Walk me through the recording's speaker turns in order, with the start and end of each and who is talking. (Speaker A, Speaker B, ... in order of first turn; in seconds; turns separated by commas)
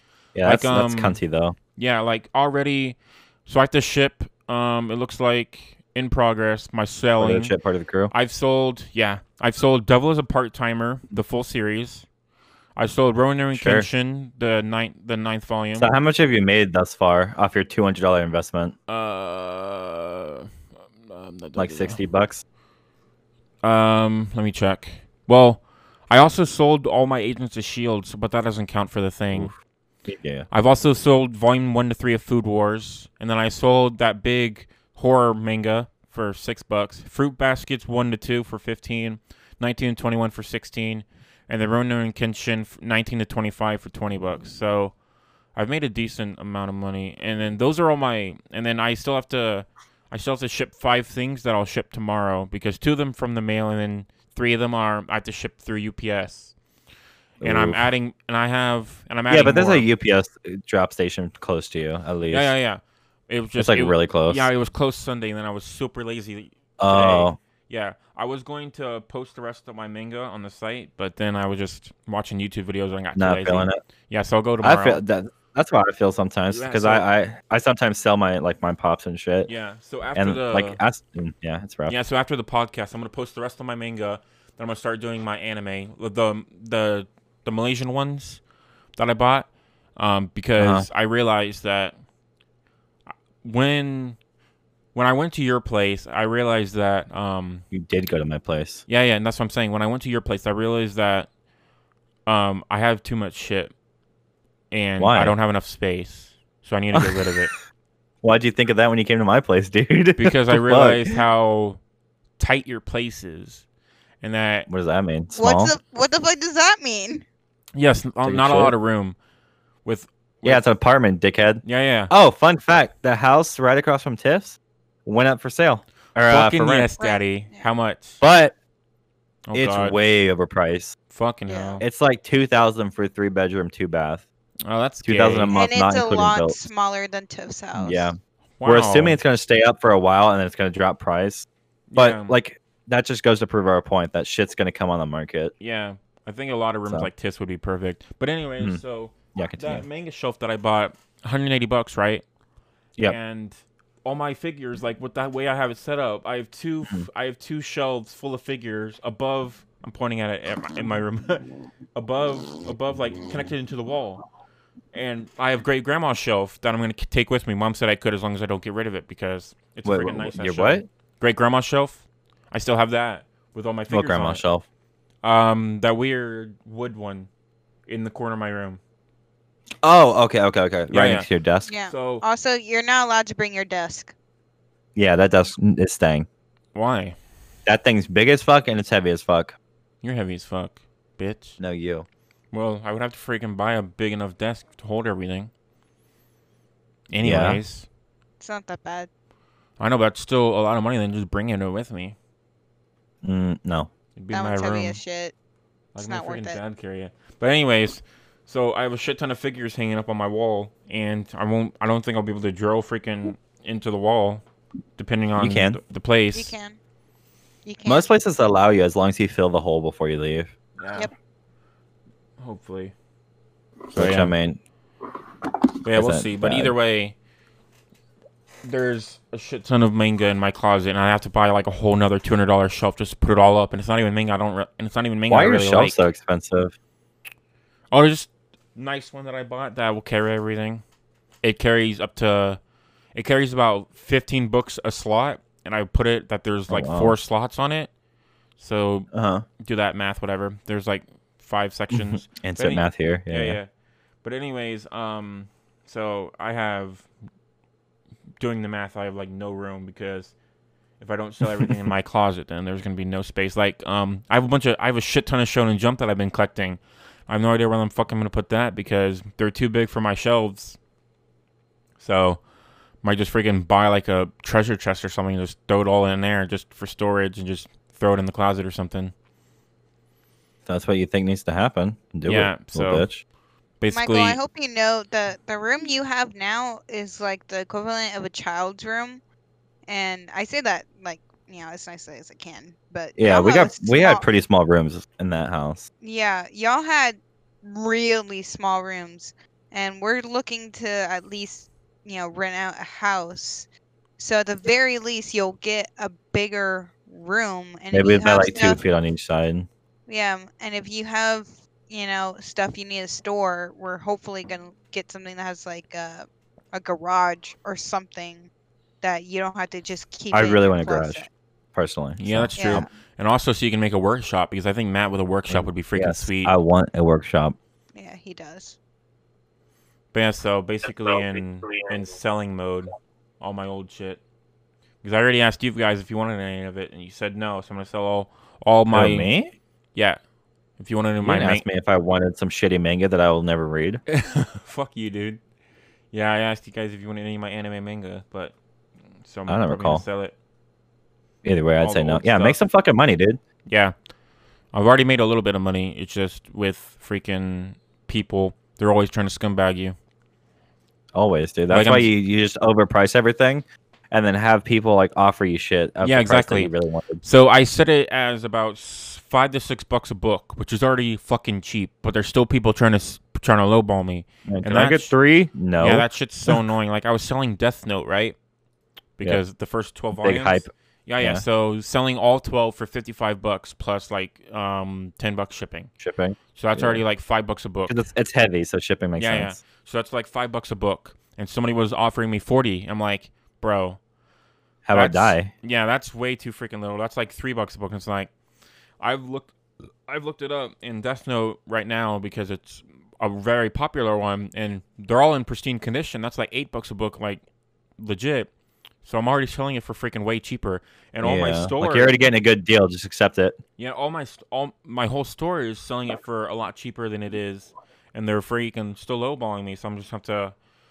Speaker A: 0.3-1.6, Speaker B: 0.4-1.2, Speaker B: 1.8-7.5, Speaker A: 7.2-8.1, Speaker B: 8.1-12.1, Speaker B: 12.8-15.9, Speaker A: 13.5-13.9, Speaker A: 15.8-18.8, Speaker B: 18.9-20.5, Speaker B: 21.1-22.0, Speaker A: 21.6-22.4, Speaker B: 23.6-29.5, Speaker A: 30.1-30.5, Speaker B: 30.5-45.0, Speaker B: 45.5-56.5, Speaker A: 57.4-57.9, Speaker B: 57.4-59.9, Speaker A: 59.3-62.5, Speaker B: 62.3-75.0, Speaker A: 63.6-64.5, Speaker A: 66.8-67.4, Speaker A: 73.2-73.8, Speaker A: 74.6-79.5, Speaker B: 76.5-77.1, Speaker B: 79.5-80.8, Speaker A: 80.2-82.0, Speaker B: 81.9-88.4, Speaker B: 89.0-92.0, Speaker A: 90.6-90.9, Speaker B: 93.4-94.2, Speaker B: 95.0-97.7, Speaker A: 97.7-98.8, Speaker B: 98.9-101.3, Speaker B: 102.3-103.7, Speaker B: 104.7-107.5, Speaker A: 105.0-105.4, Speaker A: 106.9-107.4, Speaker A: 108.2-111.2, Speaker B: 110.2-111.8, Speaker B: 112.4-113.6, Speaker B: 114.2-114.7, Speaker A: 114.7-115.7, Speaker C: 115.3-117.2, Speaker B: 117.8-119.2, Speaker A: 118.2-118.7, Speaker B: 119.8-120.7, Speaker A: 120.4-126.9, Speaker B: 121.6-122.1, Speaker B: 126.2-128.2, Speaker C: 127.0-127.7, Speaker A: 128.2-128.5, Speaker B: 129.5-130.0, Speaker A: 129.5-131.0, Speaker B: 131.1-131.8, Speaker C: 131.5-131.8, Speaker A: 131.8-134.2, Speaker B: 134.7-135.6, Speaker A: 135.0-136.6, Speaker C: 135.5-138.1, Speaker A: 137.8-145.5, Speaker B: 138.6-139.2, Speaker B: 141.9-142.3, Speaker B: 145.6-152.2, Speaker A: 149.3-149.8, Speaker B: 153.0-164.2, Speaker B: 164.9-174.4, Speaker A: 169.8-170.9, Speaker A: 173.9-174.7, Speaker B: 175.2-177.3, Speaker B: 177.9-178.8, Speaker A: 179.8-181.7, Speaker B: 180.9-181.3, Speaker C: 181.7-184.1, Speaker B: 181.9-182.2, Speaker A: 185.0-186.3, Speaker B: 186.7-187.2, Speaker A: 187.7-189.6, Speaker B: 190.0-191.6, Speaker A: 191.6-192.1, Speaker B: 192.5-195.5, Speaker B: 197.1-197.9, Speaker A: 197.2-197.6, Speaker C: 198.4-199.1, Speaker B: 199.8-202.2, Speaker A: 203.2-203.9, Speaker B: 204.2-205.0, Speaker C: 204.3-205.3, Speaker B: 205.9-214.4, Speaker C: 206.0-206.6, Speaker B: 215.0-216.6, Speaker A: 215.4-215.8, Speaker C: 216.3-216.8, Speaker C: 217.7-218.1, Speaker A: 217.8-220.5, Speaker B: 220.8-221.1, Speaker B: 222.4-222.9, Speaker B: 223.9-224.3, Speaker A: 223.9-224.6, Speaker B: 225.8-227.2, Speaker A: 225.9-226.7, Speaker B: 228.6-236.0, Speaker A: 235.3-236.8, Speaker B: 237.9-240.8, Speaker B: 241.4-242.6, Speaker B: 243.2-247.9, Speaker A: 246.7-247.2, Speaker B: 248.6-249.1, Speaker A: 249.1-249.4, Speaker B: 249.6-253.7, Speaker A: 251.9-253.6, Speaker B: 254.2-257.1, Speaker B: 258.4-260.3, Speaker B: 261.0-270.8, Speaker B: 272.0-272.4, Speaker B: 273.0-279.1, Speaker A: 280.7-283.2, Speaker B: 282.2-283.1, Speaker B: 283.8-284.4, Speaker C: 283.9-289.2, Speaker C: 289.9-294.2, Speaker A: 293.2-295.9, Speaker C: 296.0-308.8, Speaker A: 307.9-309.7, Speaker C: 310.1-318.5, Speaker C: 319.0-321.3, Speaker A: 320.3-322.9, Speaker B: 322.2-326.5, Speaker C: 322.6-322.9, Speaker A: 325.5-327.6, Speaker C: 327.9-328.8, Speaker B: 330.1-334.2, Speaker B: 335.0-339.3, Speaker A: 338.9-339.5, Speaker B: 340.8-341.7, Speaker A: 341.2-344.0, Speaker B: 344.1-345.4, Speaker B: 346.1-348.6, Speaker B: 349.2-350.4, Speaker A: 349.5-350.0, Speaker A: 351.4-353.4, Speaker B: 351.8-352.6, Speaker B: 353.7-353.9, Speaker B: 354.7-360.0, Speaker A: 361.1-367.2, Speaker B: 361.7-362.1, Speaker B: 366.0-375.1, Speaker A: 374.5-376.6, Speaker B: 375.8-378.4, Speaker B: 379.2-385.9, Speaker A: 380.2-381.4, Speaker A: 386.0-387.0, Speaker B: 386.6-388.0, Speaker A: 387.9-389.6, Speaker B: 389.2-394.0, Speaker A: 394.9-395.5, Speaker B: 394.9-398.3, Speaker B: 399.0-399.5, Speaker B: 400.1-407.4, Speaker B: 408.0-408.5, Speaker B: 409.0-412.2, Speaker A: 411.2-413.6, Speaker B: 413.8-420.6